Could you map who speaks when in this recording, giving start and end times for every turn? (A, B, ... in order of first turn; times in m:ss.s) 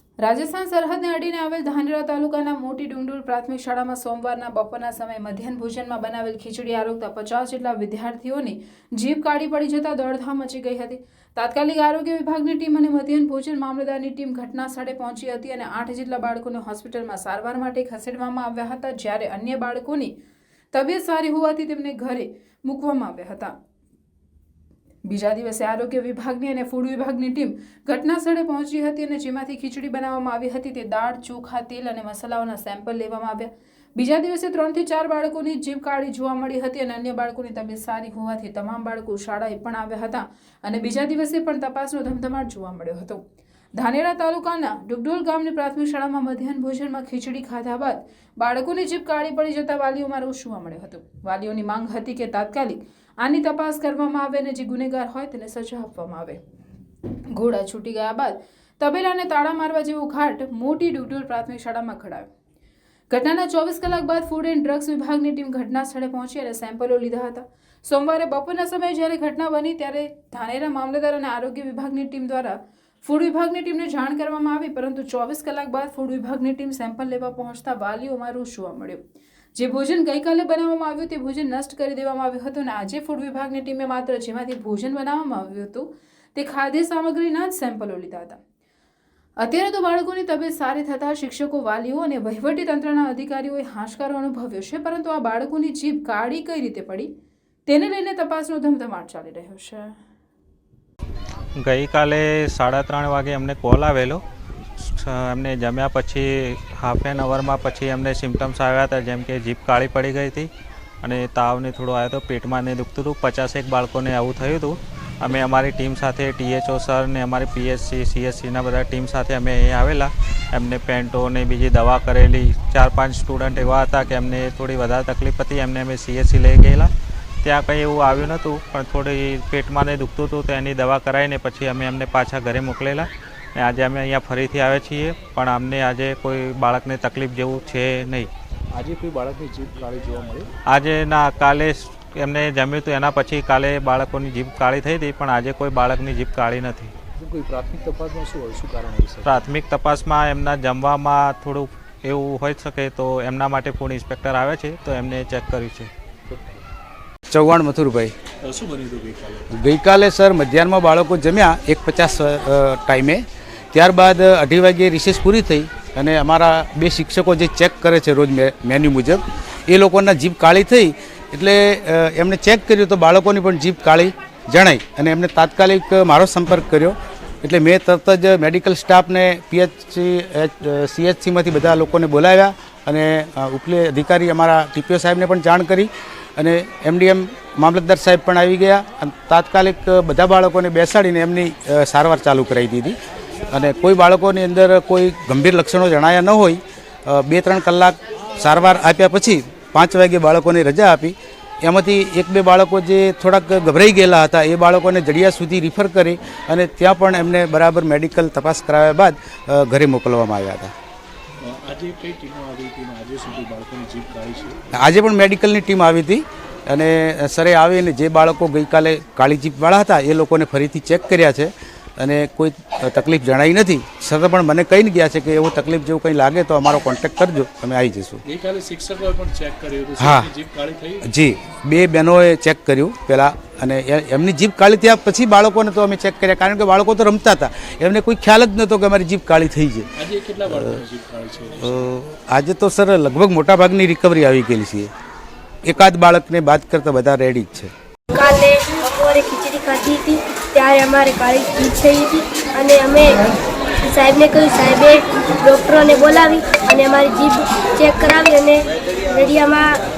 0:00.2-0:20.1 A
0:20.7-0:23.5 A
0:25.1-0:43.2 A
0:43.8-0:56.4 A
0:57.4-1:02.3 A
1:03.1-1:19.0 A
1:19.6-1:28.4 A
1:29.4-1:37.1 A
1:37.7-1:40.0 A
1:41.6-1:44.2 B
1:44.8-1:50.5 B
1:51.0-2:06.9 B
2:07.4-2:18.3 B
2:18.7-2:20.5 C
2:20.7-2:26.9 B
2:27.2-2:29.4 C
2:29.2-2:35.9 B
2:36.3-2:36.6 C
2:37.3-2:38.1 D
2:38.4-2:39.5 C
2:39.5-2:43.2 D
2:43.7-3:13.0 D
3:13.5-3:30.7 D
3:31.4-3:34.6 C
3:34.7-3:48.2 D
3:48.2-3:51.1 C
3:50.0-3:50.3 D
3:51.1-3:59.9 D
4:00.0-4:01.9 C
4:00.5-4:00.8 D
4:01.6-4:04.9 D
4:05.6-4:07.7 D
4:08.1-4:13.2 E
4:13.9-4:19.8 E